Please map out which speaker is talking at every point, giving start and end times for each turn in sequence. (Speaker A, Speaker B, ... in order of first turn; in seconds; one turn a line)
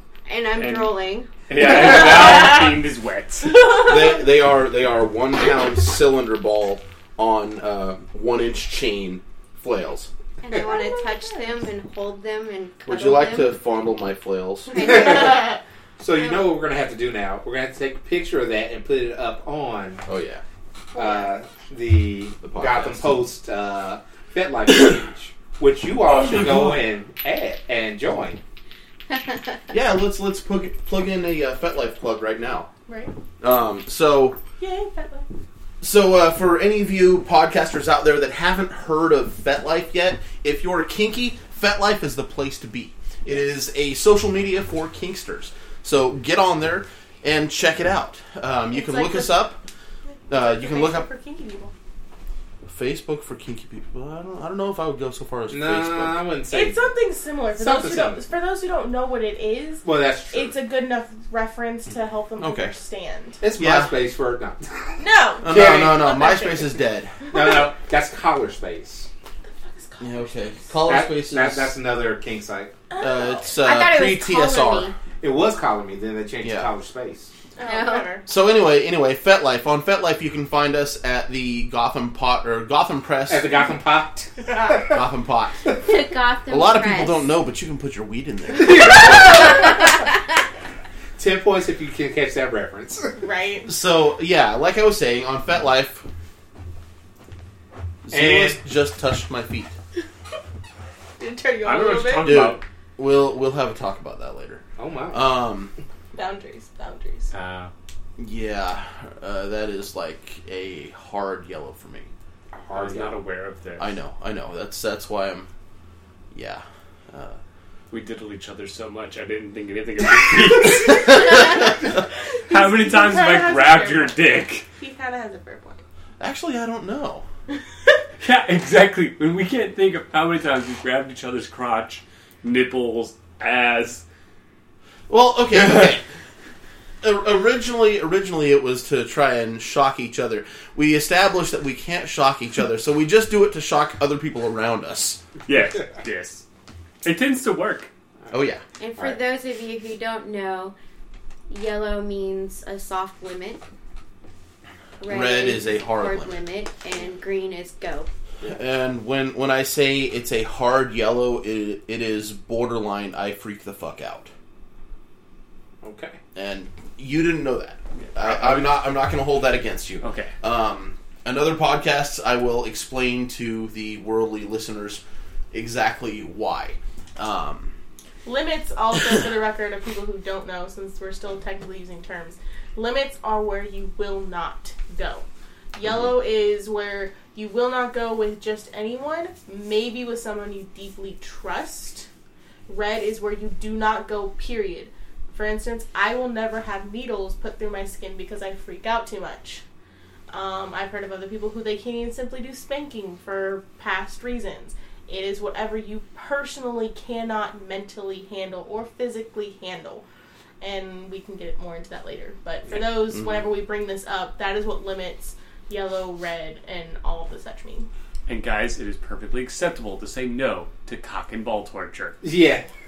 Speaker A: 0.3-1.3
Speaker B: 0.6-0.9
Speaker B: 1.5-3.7
Speaker A: 1.8-2.5
Speaker C: 3.8-10.1
Speaker A: 10.4-13.6
Speaker D: 10.5-11.5
Speaker C: 12.9-15.1
Speaker A: 14.7-15.6
Speaker E: 14.8-15.5
Speaker E: 16.0-20.0
Speaker C: 20.1-20.4
Speaker E: 20.9-28.4
Speaker C: 22.4-23.2
Speaker C: 26.2-26.8
Speaker C: 29.7-32.7
Speaker D: 32.9-33.1
Speaker C: 33.4-34.4
Speaker D: 34.6-35.3
Speaker C: 35.8-49.6
Speaker D: 48.7-49.4
Speaker D: 50.2-51.7
Speaker C: 50.3-51.1
Speaker C: 52.7-56.3
Speaker E: 55.5-56.8
Speaker D: 56.5-63.4
Speaker E: 57.6-58.2
Speaker E: 59.8-60.5
Speaker C: 62.4-62.8
Speaker E: 63.4-66.1
Speaker C: 63.6-63.9
Speaker D: 65.0-66.8
Speaker C: 65.4-67.2
Speaker E: 67.3-69.1
Speaker D: 67.4-67.7
Speaker D: 69.4-70.8
Speaker C: 70.0-71.8
Speaker E: 70.9-72.8
Speaker D: 72.9-73.5
Speaker C: 73.0-74.9
Speaker A: 73.6-74.9
Speaker E: 75.2-77.3
Speaker C: 76.4-76.7
Speaker D: 77.6-78.3
Speaker A: 77.6-78.2
Speaker C: 78.3-83.5
Speaker E: 83.3-85.0
Speaker D: 84.5-84.9
Speaker C: 84.9-85.7
Speaker A: 85.7-87.3
Speaker C: 86.5-89.4
Speaker E: 88.5-89.7
Speaker A: 89.5-89.9
Speaker E: 91.2-93.2
Speaker D: 93.2-93.7
Speaker C: 93.7-96.1
Speaker C: 98.0-99.8
Speaker E: 98.1-98.6
Speaker D: 101.2-102.4
Speaker B: 101.6-102.6
Speaker C: 102.2-105.7
Speaker E: 104.8-105.4
Speaker D: 106.1-107.3
Speaker B: 107.3-107.7
Speaker C: 108.2-112.1
Speaker E: 112.5-113.2
Speaker B: 112.7-113.9
Speaker C: 113.8-115.5
Speaker C: 116.3-117.4
Speaker B: 117.9-121.8
Speaker D: 122.5-125.8
Speaker B: 122.5-124.7
Speaker C: 126.2-127.2
Speaker B: 128.2-134.0
Speaker C: 135.1-136.0
Speaker C: 137.0-145.2
Speaker B: 145.5-146.4
Speaker B: 147.0-147.9
Speaker C: 148.3-148.6
Speaker A: 148.8-150.7
Speaker A: 151.5-153.6
Speaker A: 155.0-158.1
Speaker C: 155.1-156.4
Speaker C: 158.4-164.3
Speaker E: 165.8-166.2
Speaker C: 166.3-177.7
Speaker B: 168.0-168.8
Speaker B: 170.0-170.3
Speaker D: 178.2-192.1
Speaker C: 185.8-186.1
Speaker D: 192.7-199.6
Speaker D: 200.3-210.0
Speaker D: 210.6-217.9
Speaker B: 218.3-222.2
Speaker E: 222.2-222.7